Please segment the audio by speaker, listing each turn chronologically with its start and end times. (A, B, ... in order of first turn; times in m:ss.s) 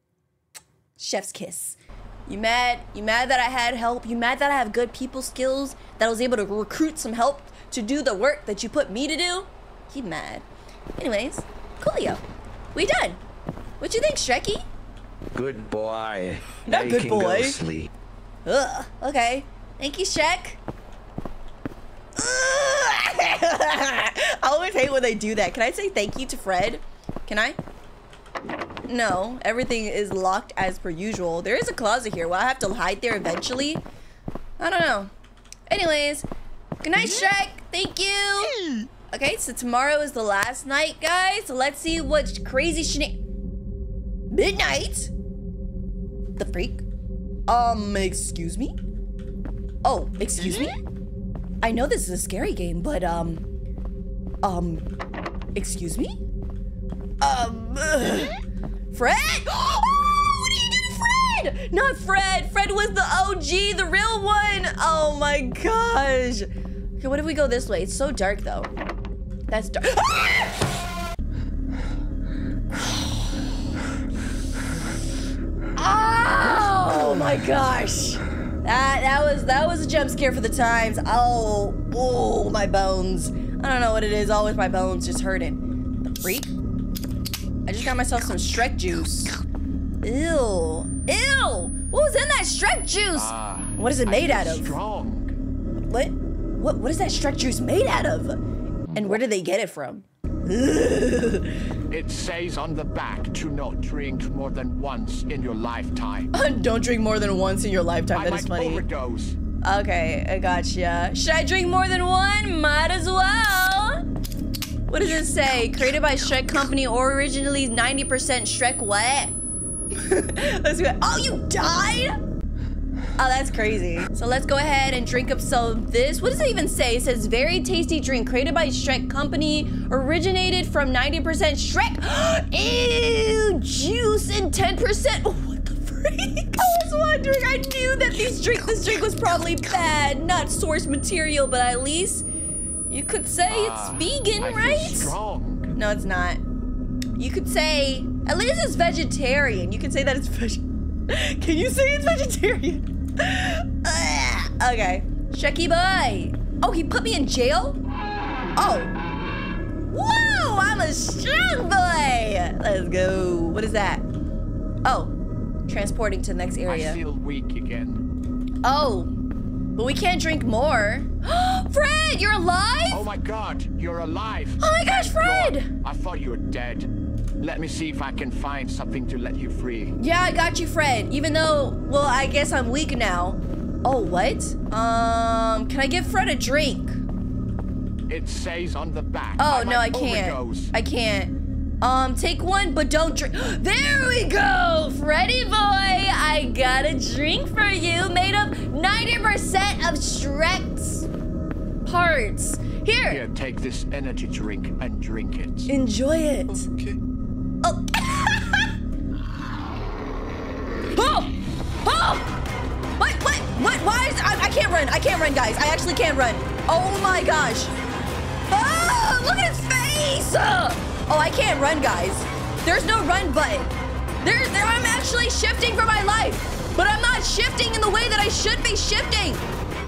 0:01.0-0:10.5 A
0:11.0-0:12.2 A
0:12.7-0:13.2 A
0:13.8-0:14.6 A
0:15.3-0:17.9 B
0:16.6-0:17.6 A
0:18.5-0:20.6 A
0:22.2-0:27.6 A
0:28.9-0:33.8 A
0:34.6-0:35.1 A
0:35.7-0:36.3 A
0:36.8-0:38.6 A
0:39.1-0:43.2 A
0:44.3-0:45.1 A
0:46.4-0:46.8 A
0:47.5-0:48.8 A
0:49.8-0:50.8 A
0:51.6-0:53.5 A
0:54.4-0:54.9 A
0:55.6-0:56.2 A
0:57.2-0:58.4 A
0:58.9-1:06.5 A
1:07.0-1:08.7 A
1:09.5-1:10.7 A
1:12.8-1:13.2 A
1:15.8-1:26.5 A
1:27.7-1:29.3 A
1:30.0-1:34.8 A
1:33.1-1:35.3 C
1:35.8-1:38.4 A
1:38.9-1:39.2 C
1:38.9-1:41.6 A
1:41.9-1:46.3 C
1:46.3-1:48.8 A
1:48.1-1:49.4 C
1:49.6-1:54.0 A
1:54.9-1:59.3 A
1:59.9-2:02.1 A
2:03.2-2:22.2 A
2:22.9-2:25.2 A
2:23.5-2:25.8 C
2:25.8-2:26.4 A
2:27.2-2:37.8 A
2:38.6-2:38.9 A
2:39.9-2:44.0 A
2:44.8-2:45.1 A
2:45.7-2:47.0 A
2:46.7-2:48.0 C
2:48.6-2:49.1 A
2:49.8-2:53.0 A
2:52.9-3:00.0 C
2:54.6-2:55.7 A
3:00.0-3:07.0 A
3:08.1-3:10.7 C
3:09.4-3:21.1 A
3:21.9-3:23.2 A
3:23.1-3:25.7 C
3:25.7-3:26.7 A
3:26.7-3:27.0 C
3:27.6-3:28.7 A
3:30.9-3:32.3 A
3:33.0-3:37.7 A
3:38.5-3:43.7 A
3:44.2-3:49.4 A